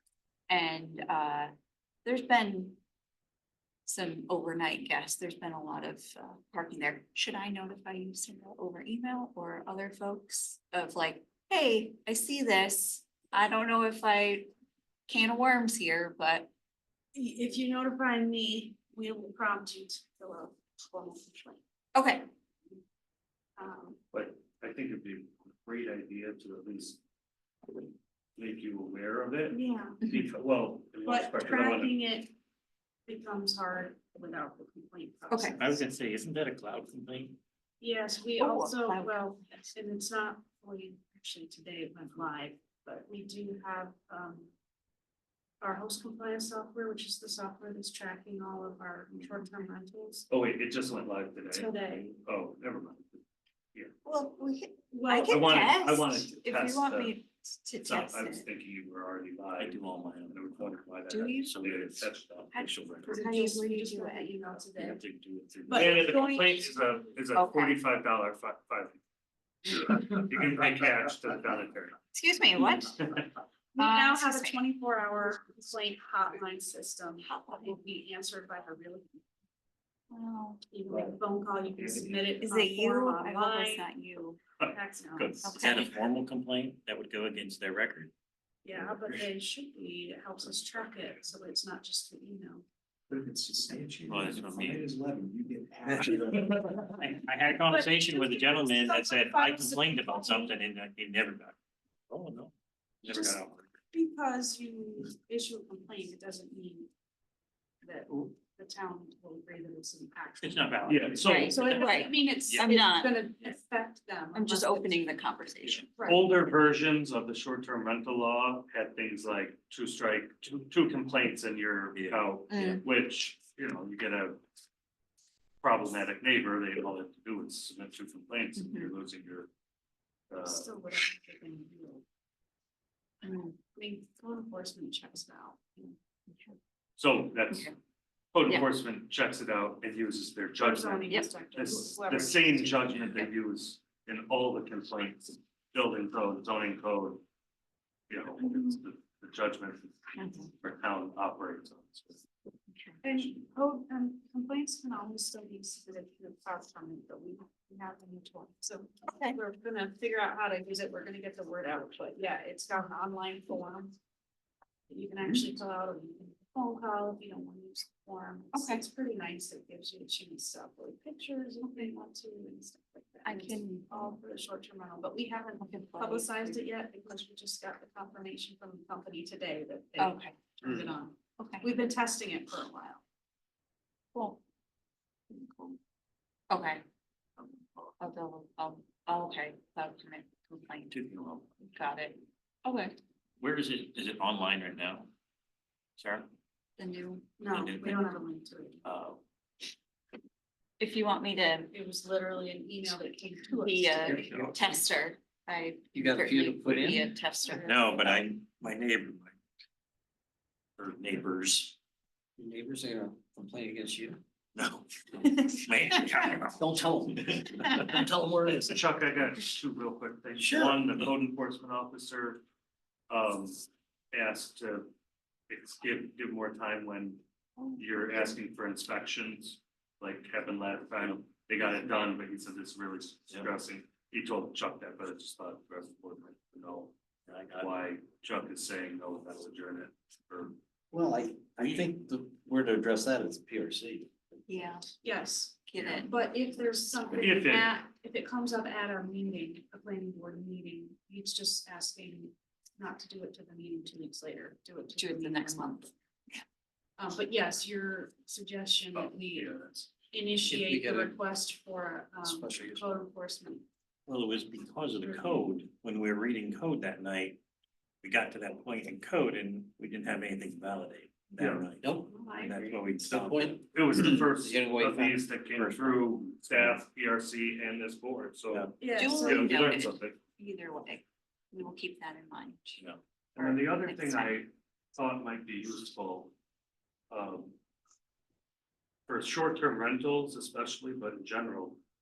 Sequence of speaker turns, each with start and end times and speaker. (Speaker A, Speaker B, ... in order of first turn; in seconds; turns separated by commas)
Speaker A: 0.5-1.5, Speaker A: 2.0-2.8, Speaker A: 3.9-14.5, Speaker A: 15.1-16.5, Speaker B: 17.1-21.6, Speaker A: 21.9-22.3, Speaker B: 23.6-24.0, Speaker C: 24.1-27.0, Speaker C: 28.4-32.0, Speaker B: 29.5-30.0, Speaker B: 31.0-32.3, Speaker B: 33.1-35.8, Speaker A: 35.3-35.6, Speaker D: 35.6-37.4, Speaker B: 37.8-44.5, Speaker A: 38.4-39.7, Speaker B: 45.6-50.3, Speaker C: 50.3-53.2, Speaker B: 51.5-52.2, Speaker A: 54.0-58.5, Speaker B: 54.9-55.5, Speaker C: 55.2-57.2, Speaker C: 57.8-63.2, Speaker D: 59.6-60.8, Speaker A: 61.1-61.8, Speaker D: 61.5-62.0, Speaker A: 62.5-64.6, Speaker B: 63.0-65.0, Speaker C: 64.9-69.0, Speaker D: 65.7-66.3, Speaker B: 65.7-66.8, Speaker A: 67.3-67.8, Speaker C: 69.7-72.0, Speaker A: 72.1-73.0, Speaker C: 73.0-73.2, Speaker B: 73.8-79.2, Speaker A: 73.8-74.6, Speaker A: 77.2-77.8, Speaker A: 80.1-80.6, Speaker B: 80.7-83.9, Speaker A: 82.4-84.4, Speaker C: 84.6-85.5, Speaker B: 84.6-85.5, Speaker A: 85.4-85.9, Speaker D: 85.5-88.1, Speaker B: 88.7-92.7, Speaker E: 93.1-96.5, Speaker C: 94.1-94.9, Speaker D: 95.9-101.6, Speaker B: 97.7-100.5, Speaker D: 102.1-102.5, Speaker D: 103.0-103.7, Speaker B: 103.1-103.4, Speaker B: 103.9-106.9, Speaker B: 107.8-115.0, Speaker D: 110.4-112.7, Speaker C: 110.9-111.6, Speaker A: 111.2-113.2, Speaker A: 114.3-115.9, Speaker C: 115.7-124.4, Speaker B: 116.0-116.2, Speaker D: 121.9-122.3, Speaker A: 122.5-122.8, Speaker C: 125.6-129.5, Speaker A: 128.6-128.9, Speaker C: 130.3-130.7, Speaker B: 130.4-132.0, Speaker A: 133.2-133.6, Speaker B: 133.8-135.9, Speaker A: 136.3-136.6, Speaker C: 137.0-137.7, Speaker C: 138.3-147.2, Speaker B: 140.6-143.2, Speaker C: 148.1-150.0, Speaker A: 150.2-150.5, Speaker C: 150.6-152.2, Speaker A: 152.7-153.0, Speaker B: 153.0-163.9, Speaker A: 159.1-159.4, Speaker B: 164.9-183.0, Speaker A: 168.5-168.8, Speaker A: 173.2-174.1, Speaker A: 175.6-176.6, Speaker A: 180.0-180.3, Speaker E: 180.6-180.9, Speaker A: 181.4-181.7, Speaker A: 184.1-184.4, Speaker A: 185.3-185.8, Speaker A: 186.5-186.8, Speaker A: 188.0-190.9, Speaker D: 190.9-191.4, Speaker A: 191.6-193.0, Speaker D: 193.4-195.1, Speaker D: 196.0-196.3, Speaker A: 196.8-197.3, Speaker B: 197.4-198.8, Speaker D: 197.5-198.1, Speaker D: 198.8-199.2, Speaker A: 200.8-201.8, Speaker B: 201.7-204.3, Speaker A: 203.5-208.2, Speaker D: 204.2-204.6, Speaker E: 205.9-207.1, Speaker B: 207.4-207.8, Speaker D: 207.7-209.4, Speaker D: 210.8-211.8, Speaker E: 212.4-214.2, Speaker D: 214.6-216.7, Speaker E: 216.6-218.8, Speaker C: 218.5-222.4, Speaker E: 220.4-220.8, Speaker C: 223.1-224.9, Speaker C: 225.5-227.2, Speaker C: 227.8-236.9, Speaker D: 237.3-237.8, Speaker C: 237.6-240.6, Speaker E: 240.9-244.1, Speaker A: 244.5-244.9, Speaker B: 245.0-255.9, Speaker A: 245.7-246.1, Speaker C: 247.2-247.7, Speaker A: 255.0-256.4, Speaker B: 257.0-259.5, Speaker C: 258.9-259.9, Speaker B: 260.1-263.6, Speaker E: 260.4-261.2, Speaker E: 262.2-263.0, Speaker D: 264.1-267.4, Speaker D: 268.0-273.6, Speaker C: 271.4-271.7, Speaker E: 271.8-275.9, Speaker B: 272.1-272.5, Speaker C: 273.7-280.2, Speaker D: 276.5-276.8, Speaker B: 278.8-279.7, Speaker A: 278.9-282.8, Speaker C: 283.4-286.3, Speaker A: 283.4-284.4, Speaker C: 287.1-287.6, Speaker C: 289.1-291.8